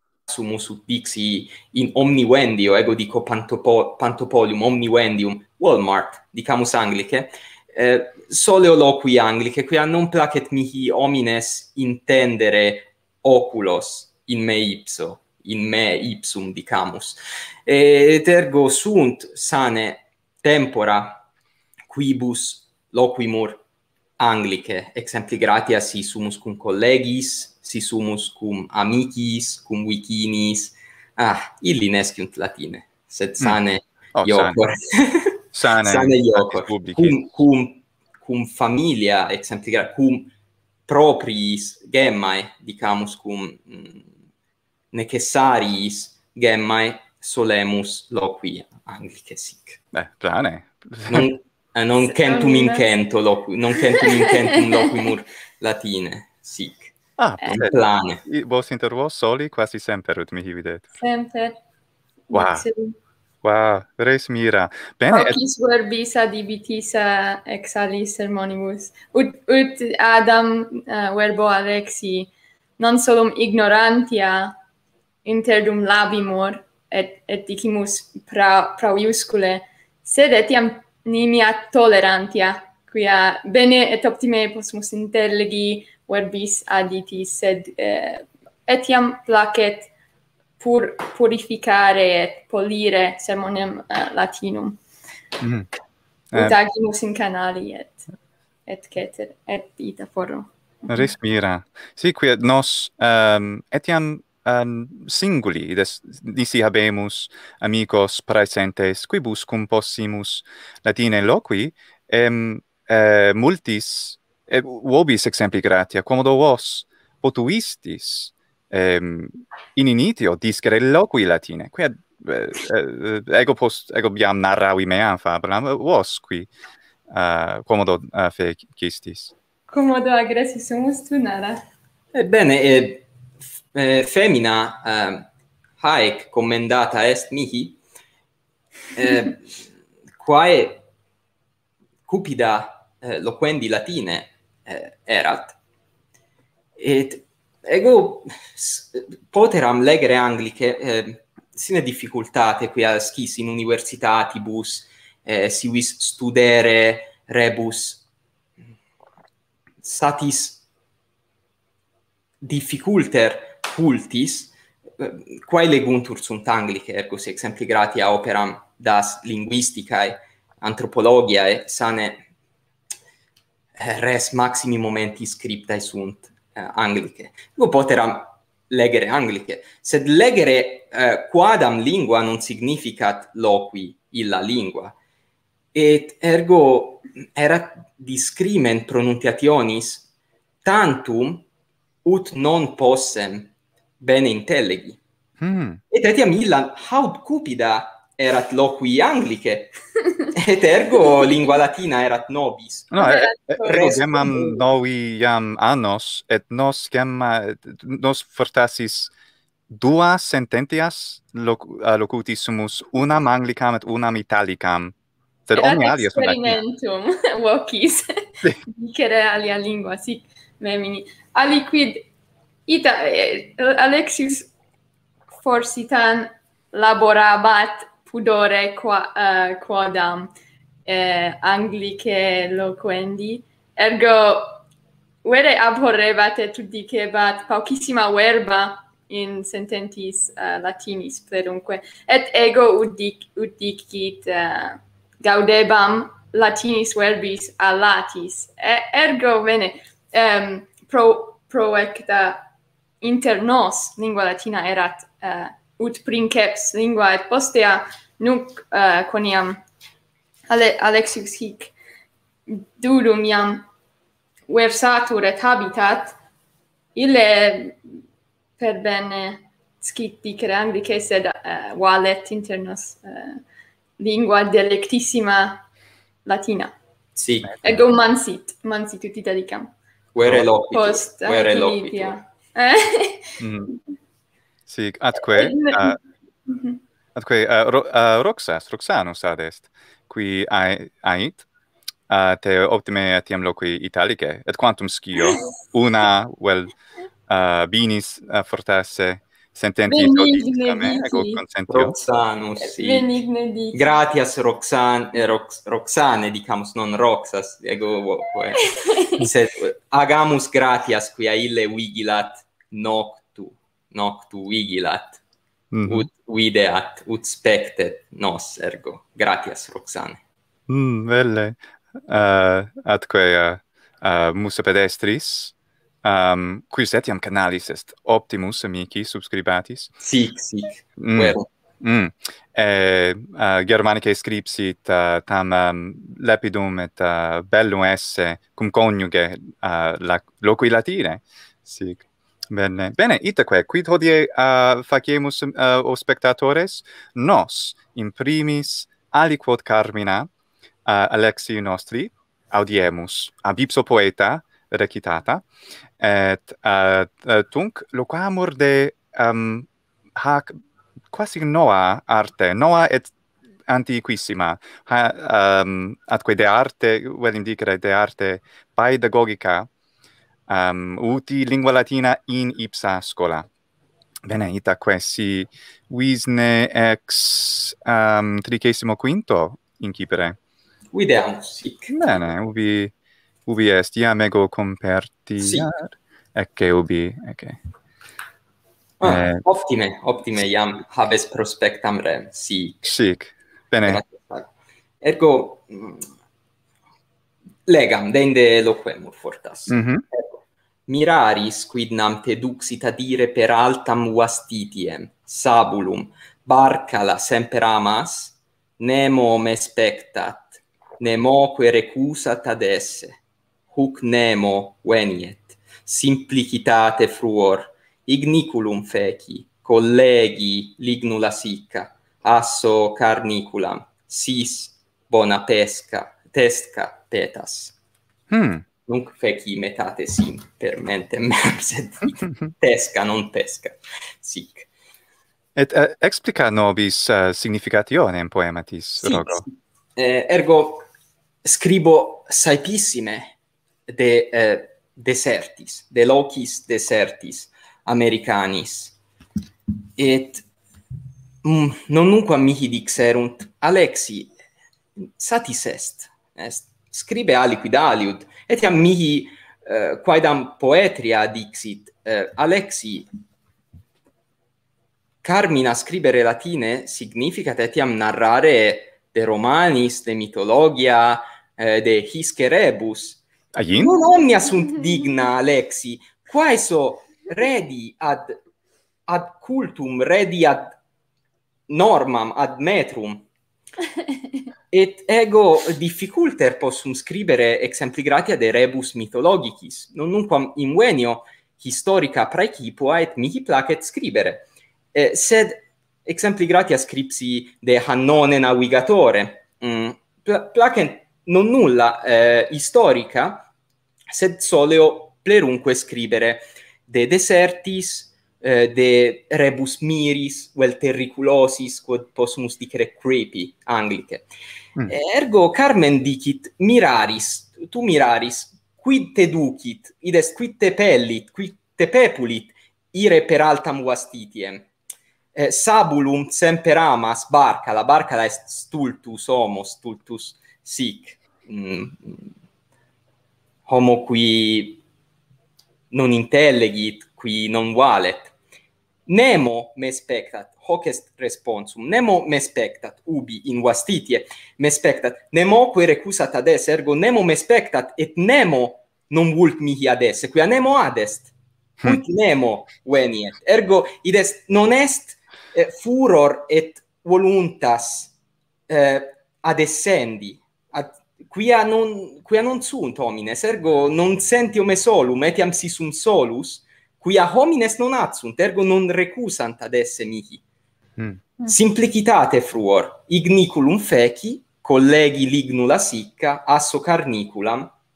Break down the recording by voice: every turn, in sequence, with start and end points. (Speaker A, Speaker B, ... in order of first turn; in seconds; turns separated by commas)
Speaker A: 0.3-21.2, Speaker A: 21.9-23.6, Speaker A: 24.2-40.3, Speaker B: 34.1-34.7, Speaker B: 35.5-37.2, Speaker A: 40.9-44.1, Speaker A: 44.9-49.8, Speaker B: 49.9-51.3, Speaker A: 51.1-58.2, Speaker C: 52.1-52.9, Speaker C: 54.0-54.5, Speaker B: 57.2-60.9, Speaker C: 61.0-61.6, Speaker C: 62.3-63.0, Speaker B: 62.3-62.6, Speaker B: 63.4-65.4, Speaker C: 65.1-74.5, Speaker C: 75.2-89.9, Speaker C: 90.6-94.8, Speaker B: 95.4-95.7, Speaker B: 96.3-96.6, Speaker C: 96.3-98.0, Speaker C: 98.7-101.1, Speaker B: 100.9-126.5, Speaker B: 127.1-129.3, Speaker C: 129.7-131.6, Speaker A: 132.1-133.0, Speaker A: 133.7-135.3, Speaker A: 135.8-137.8, Speaker A: 138.9-139.4, Speaker A: 140.2-140.8, Speaker A: 142.1-145.6, Speaker A: 146.8-158.0, Speaker A: 159.8-160.6, Speaker A: 162.4-172.2, Speaker A: 173.8-184.9, Speaker A: 185.7-190.1, Speaker A: 190.6-191.4, Speaker A: 192.0-195.0, Speaker B: 195.4-195.8, Speaker A: 195.9-199.7, Speaker A: 200.3-202.9, Speaker B: 202.9-209.1, Speaker C: 202.9-204.3, Speaker A: 203.7-204.6, Speaker B: 209.7-214.9, Speaker B: 215.5-216.6, Speaker C: 215.5-222.1, Speaker C: 222.7-224.5, Speaker C: 225.4-230.3, Speaker C: 230.8-234.6, Speaker C: 235.2-252.5, Speaker C: 253.0-259.6, Speaker C: 260.5-261.7, Speaker C: 262.5-263.7, Speaker C: 264.5-266.1, Speaker C: 266.9-267.9, Speaker C: 268.6-273.4, Speaker C: 274.0-275.6, Speaker C: 276.2-276.7, Speaker A: 277.1-277.6, Speaker C: 277.6-279.7, Speaker A: 280.1-282.2, Speaker C: 280.7-283.7, Speaker B: 283.4-283.7, Speaker B: 284.7-286.0, Speaker C: 285.3-285.9, Speaker C: 286.5-286.8, Speaker B: 287.1-291.4, Speaker B: 292.1-296.7, Speaker B: 297.3-302.0, Speaker C: 299.9-301.4, Speaker A: 301.7-303.1, Speaker C: 302.6-303.9, Speaker A: 303.7-315.2, Speaker C: 308.9-309.2, Speaker B: 315.7-316.1, Speaker A: 315.9-320.2, Speaker B: 320.7-329.9, Speaker A: 330.0-331.4, Speaker B: 331.0-350.3, Speaker B: 350.9-355.4, Speaker B: 356.0-360.5, Speaker B: 361.1-363.1, Speaker B: 363.7-369.7, Speaker B: 370.5-373.5, Speaker B: 374.2-380.4, Speaker A: 380.9-382.3, Speaker B: 381.9-382.9, Speaker B: 383.4-387.6, Speaker A: 385.4-385.7, Speaker A: 389.0-392.9, Speaker B: 389.0-389.4, Speaker B: 392.8-394.0, Speaker A: 393.8-396.1, Speaker A: 397.6-427.7, Speaker B: 399.7-400.0, Speaker B: 428.3-428.6, Speaker A: 428.9-434.7, Speaker B: 435.6-439.4, Speaker A: 439.0-440.9, Speaker A: 441.4-443.4, Speaker A: 443.9-448.9, Speaker A: 449.9-450.4, Speaker A: 451.4-454.3, Speaker A: 455.0-463.1, Speaker A: 465.2-473.2, Speaker B: 473.5-474.0, Speaker A: 473.8-478.4, Speaker A: 479.1-480.8, Speaker A: 481.7-483.3, Speaker A: 484.7-503.5, Speaker A: 504.1-514.3, Speaker A: 514.9-524.7, Speaker A: 525.3-532.3, Speaker A: 533.7-534.8, Speaker A: 535.9-538.3, Speaker A: 539.1-551.3, Speaker A: 551.8-558.1, Speaker A: 558.7-570.4, Speaker B: 571.0-571.2, Speaker A: 571.4-577.7